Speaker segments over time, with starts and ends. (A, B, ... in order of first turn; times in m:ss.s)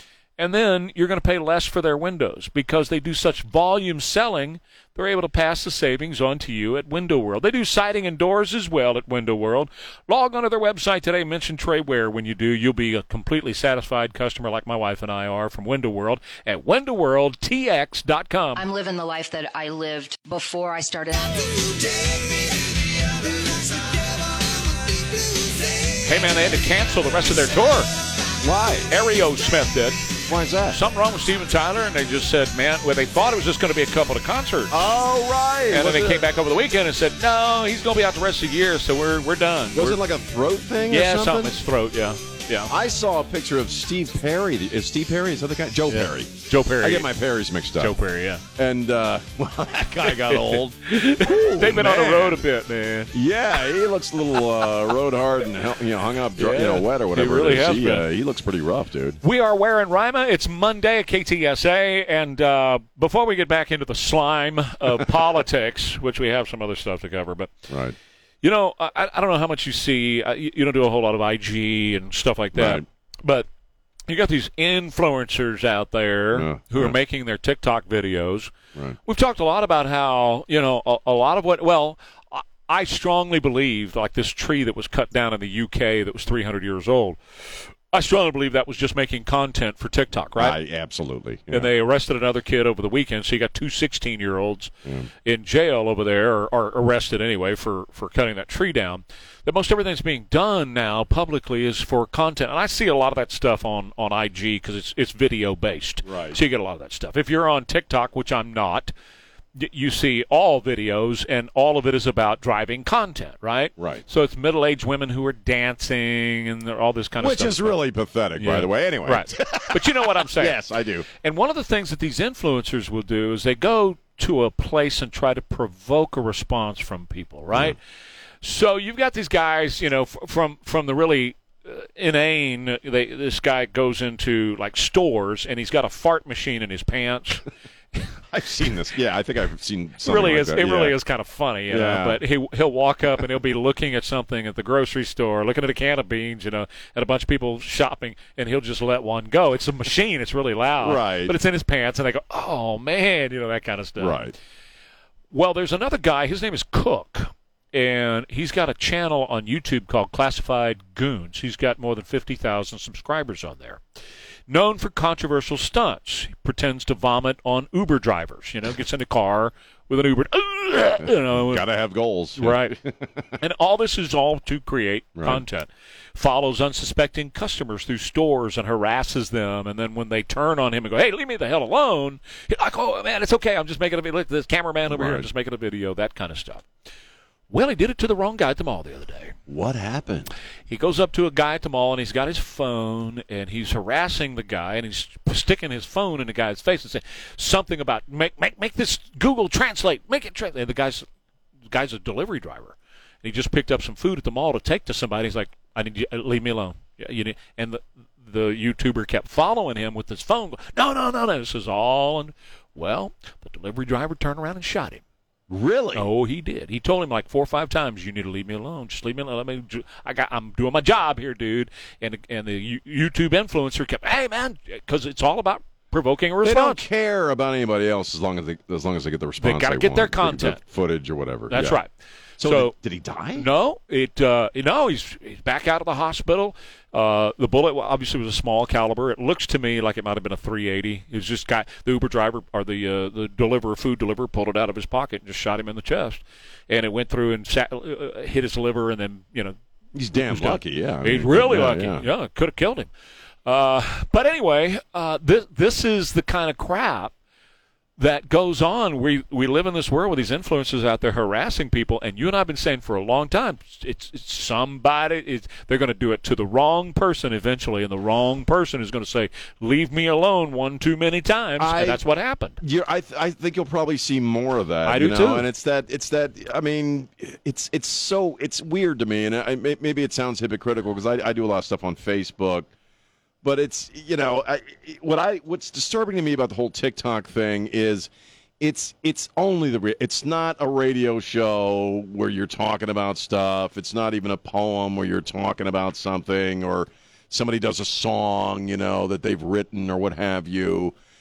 0:00.4-0:18.6 A
0:18.6-0:22.7 B
0:26.0-0:27.9 A
0:28.4-0:28.9 C
0:28.9-0:30.1 A
0:30.3-0:30.8 C
0:30.7-0:34.8 A
0:34.7-0:36.3 C
0:35.7-0:40.0 A
0:39.7-0:41.6 C
0:40.9-0:42.7 A
0:42.7-0:48.0 C
0:45.9-0:47.1 A
0:47.8-0:48.4 A
0:48.6-0:52.5 C
0:50.2-0:53.1 A
0:53.1-0:59.2 C
0:56.4-0:58.1 A
0:59.2-1:07.6 A
1:07.7-1:08.0 C
1:08.4-1:13.5 A
1:12.5-1:12.8 C
1:14.1-1:18.5 A
1:16.3-1:17.0 C
1:19.1-1:30.6 A
1:30.4-1:31.7 C
1:31.5-1:34.7 A
1:35.2-1:48.9 A
1:46.0-1:46.4 C
1:49.6-1:57.8 A
1:53.8-1:54.0 C
1:57.2-2:01.1 C
1:58.4-2:00.6 A
2:01.1-2:07.8 A
2:08.4-2:17.5 A
2:18.3-2:21.0 C
2:20.0-2:34.3 A
2:21.7-2:22.2 C
2:30.8-2:31.4 C
2:34.0-2:34.4 C
2:35.3-2:43.8 A
2:44.5-2:51.7 A
2:51.0-2:53.3 C
2:52.4-2:52.8 A
2:53.4-3:06.6 A
2:55.2-2:55.4 C
3:04.9-3:05.3 C
3:07.5-3:09.4 A
3:09.5-3:10.3 C
3:10.7-3:21.1 A
3:21.7-3:35.0 A
3:35.5-3:36.1 C
3:35.9-3:46.8 A
3:46.4-3:51.8 C
3:49.4-3:50.6 A
3:51.5-3:51.9 A
3:52.4-3:53.5 C
3:52.4-3:52.7 A
3:53.3-4:09.6 A
4:09.9-4:12.1 C
4:10.2-4:12.9 A
4:13.5-4:17.1 A
4:18.0-4:32.6 A
4:31.6-4:32.0 C
4:32.6-4:42.7 C
4:34.8-4:35.5 A
4:43.4-5:00.9 C